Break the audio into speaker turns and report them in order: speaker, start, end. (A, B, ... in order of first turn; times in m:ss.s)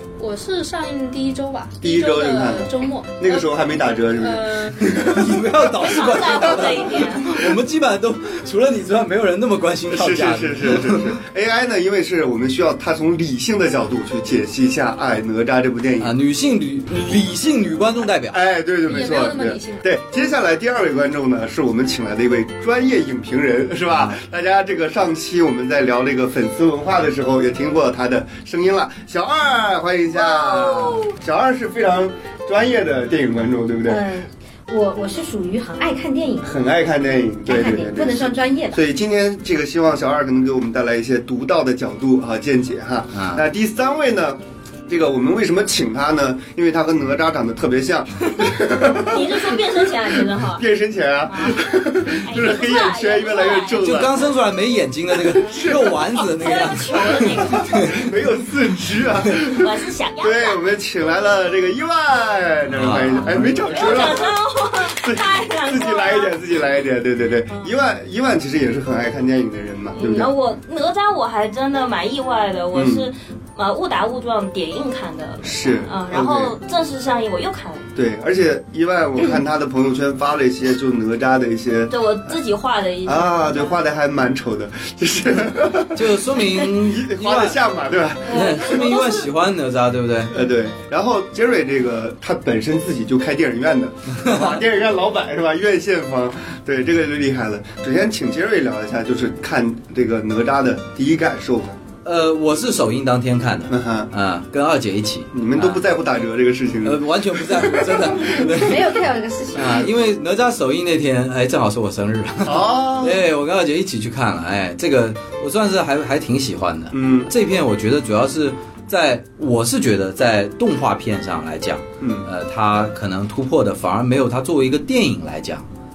0:00.2-0:04.9 A
0:01.8-0:07.1 B
0:04.8-0:11.1 C
0:05.8-0:07.4 D
0:09.9-0:16.1 B
0:16.0-0:18.4 C
0:18.3-0:34.0 B
0:18.9-0:19.8 A
0:30.2-0:31.1 D
0:33.8-0:36.5 E
0:36.4-0:54.2 B
0:37.4-0:38.8 E
0:43.1-0:43.4 C
0:48.5-0:50.6 D
0:51.3-0:53.9 D
0:53.8-0:58.1 C
0:55.3-0:55.9 B
0:56.3-0:58.0 D
0:57.1-1:04.4 B
0:59.5-1:00.6 D
1:02.7-1:03.8 C
1:03.1-1:06.3 D
1:04.9-1:10.3 B
1:09.9-1:17.8 D
1:12.7-1:13.1 B
1:15.4-1:16.6 B
1:18.0-1:22.3 B
1:21.9-1:23.8 D
1:23.0-1:26.1 B
1:25.9-1:27.6 C
1:26.8-1:29.0 B
1:28.3-1:30.3 C
1:28.3-1:29.2 D
1:30.3-1:41.8 B
1:34.2-1:34.6 C
1:42.0-1:45.8 C
1:43.7-1:44.1 B
1:45.3-1:48.5 B
1:46.8-1:48.9 C
1:48.3-1:49.9 E
1:49.5-2:05.6 C
1:52.4-1:53.2 B
1:56.9-1:57.3 B
2:02.0-2:02.3 B